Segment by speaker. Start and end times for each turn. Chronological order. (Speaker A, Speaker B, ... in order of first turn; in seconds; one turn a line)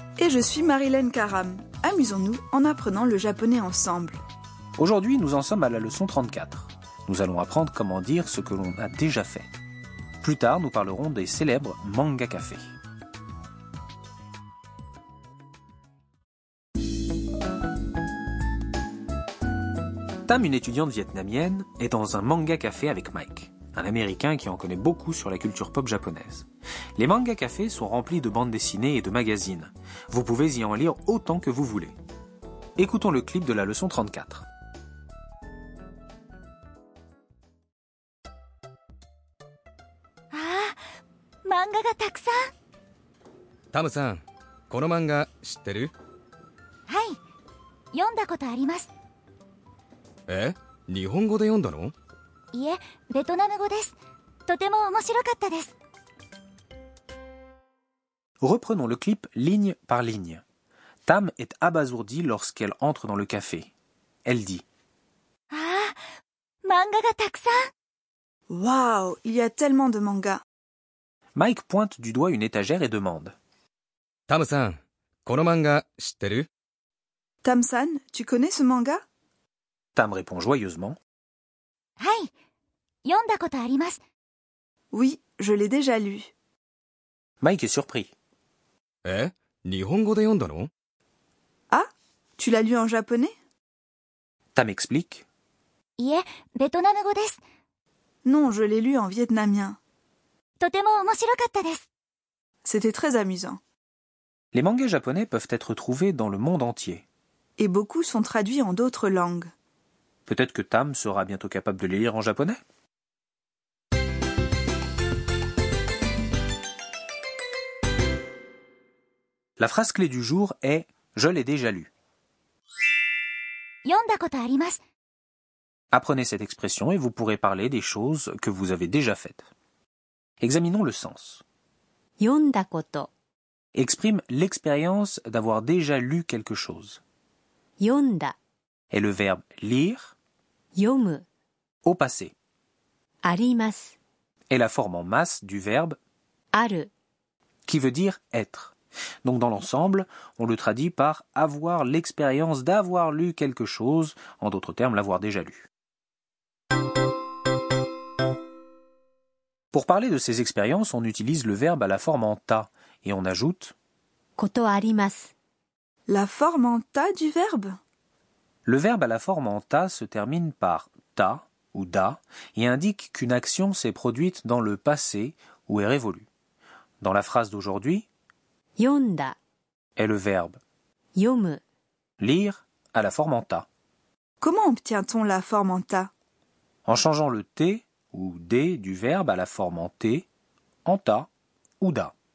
Speaker A: 0.2-4.2
Speaker B: 4.8-9.5
Speaker B: 10.2-12.6
Speaker B: 20.3-32.0
Speaker B: 32.8-34.5
Speaker C: 40.3-40.8
Speaker C: 41.5-42.4
Speaker D: 43.7-45.9
Speaker C: 46.9-47.2
Speaker C: 47.9-48.9
Speaker D: 50.3-51.9
Speaker C: 52.5-54.0
Speaker C: 54.5-55.7
Speaker B: 58.4-60.4
Speaker B: 61.1-63.7
Speaker B: 64.2-64.7
Speaker C: 65.5-66.0
Speaker C: 66.6-67.6
Speaker A: 68.5-70.4
Speaker B: 71.3-73.4
Speaker D: 74.3-76.5
Speaker A: 77.4-79.0
Speaker B: 80.0-81.0
Speaker C: 82.0-82.3
Speaker C: 83.0-84.0
Speaker A: 84.9-86.3
Speaker B: 87.4-88.1
Speaker D: 89.0-90.7
Speaker A: 92.4-93.3
Speaker B: 94.5-95.3
Speaker C: 96.0-97.4
Speaker A: 98.2-99.8
Speaker C: 100.6-101.8
Speaker A: 102.6-103.6
Speaker B: 104.5-107.1
Speaker A: 107.6-109.5
Speaker B: 110.3-112.6
Speaker B: 119.6-121.9
Speaker C: 123.8-124.8
Speaker B: 125.9-129.5
Speaker B: 130.4-131.4
Speaker E: 132.2-133.1
Speaker B: 133.8-137.0
Speaker E: 137.8-138.3
Speaker B: 138.9-140.2
Speaker E: 140.8-141.2
Speaker B: 141.8-142.3
Speaker E: 143.2-144.0
Speaker B: 144.5-146.0
Speaker E: 146.5-146.9
Speaker B: 147.7-155.7
Speaker B: 159.7-163.8
Speaker E: 164.4-165.3
Speaker A: 166.1-167.8
Speaker B: 168.7-176.3
Speaker B: 177.0-178.1
Speaker E: 178.8-179.4
Speaker B: 180.0-180.6
Speaker E: 181.2-181.6
Speaker B: 182.2-183.7
Speaker A: 184.4-186.1
Speaker B: 186.9-190.3
Speaker B: 190.8-192.2